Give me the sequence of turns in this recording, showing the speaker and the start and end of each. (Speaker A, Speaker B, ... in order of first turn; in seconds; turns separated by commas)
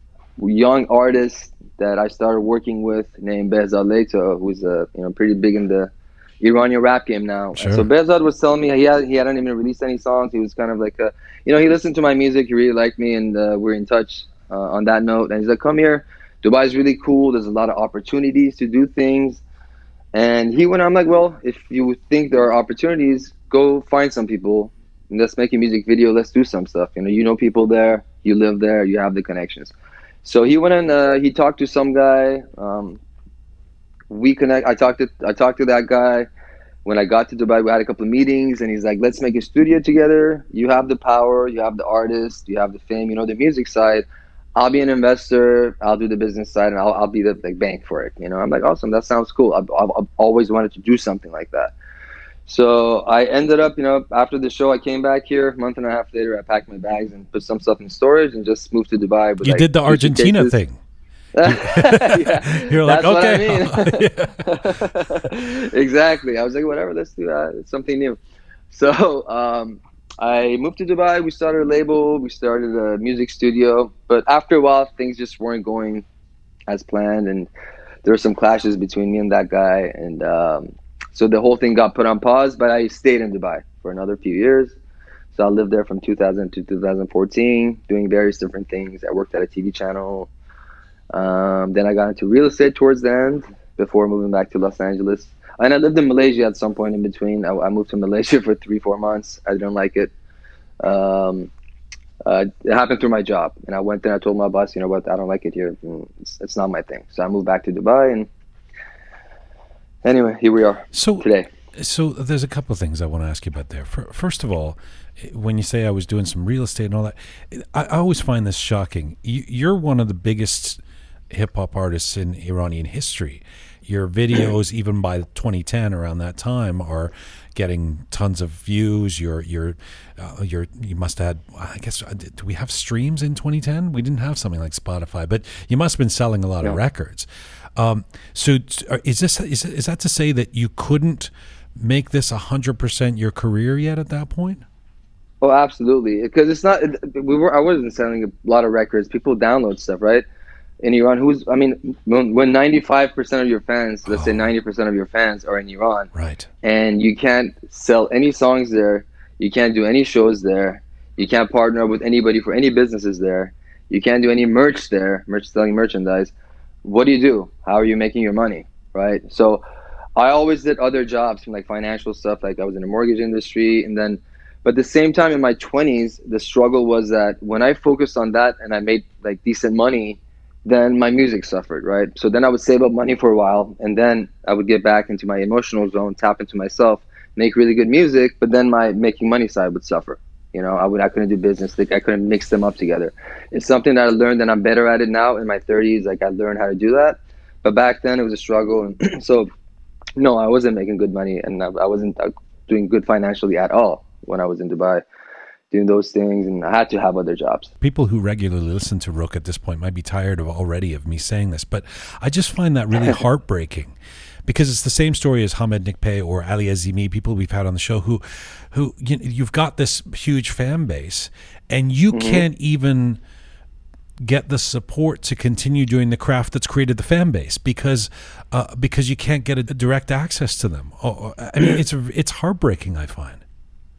Speaker A: 0.4-19.4, Speaker B: 7.5-7.9, Speaker A: 20.1-33.0, Speaker A: 34.1-36.3, Speaker A: 36.8-44.0, Speaker A: 44.5-51.7, Speaker A: 52.5-60.5, Speaker B: 59.4-60.8, Speaker A: 61.3-68.2, Speaker B: 61.4-64.7, Speaker A: 68.7-76.0, Speaker A: 76.7-77.5, Speaker A: 78.0-84.8, Speaker A: 85.3-90.3, Speaker A: 91.1-100.1, Speaker A: 100.8-101.5, Speaker A: 102.2-108.3, Speaker A: 110.0-111.5, Speaker B: 110.9-144.6, Speaker A: 145.4-150.2, Speaker A: 150.8-156.1, Speaker B: 154.1-154.5, Speaker B: 156.1-156.5, Speaker A: 156.6-166.3, Speaker A: 166.8-169.6, Speaker A: 170.2-199.5, Speaker A: 200.2-205.0, Speaker A: 205.7-207.7, Speaker B: 207.8-213.9, Speaker B: 214.4-223.2, Speaker A: 222.1-222.4, Speaker B: 224.2-233.4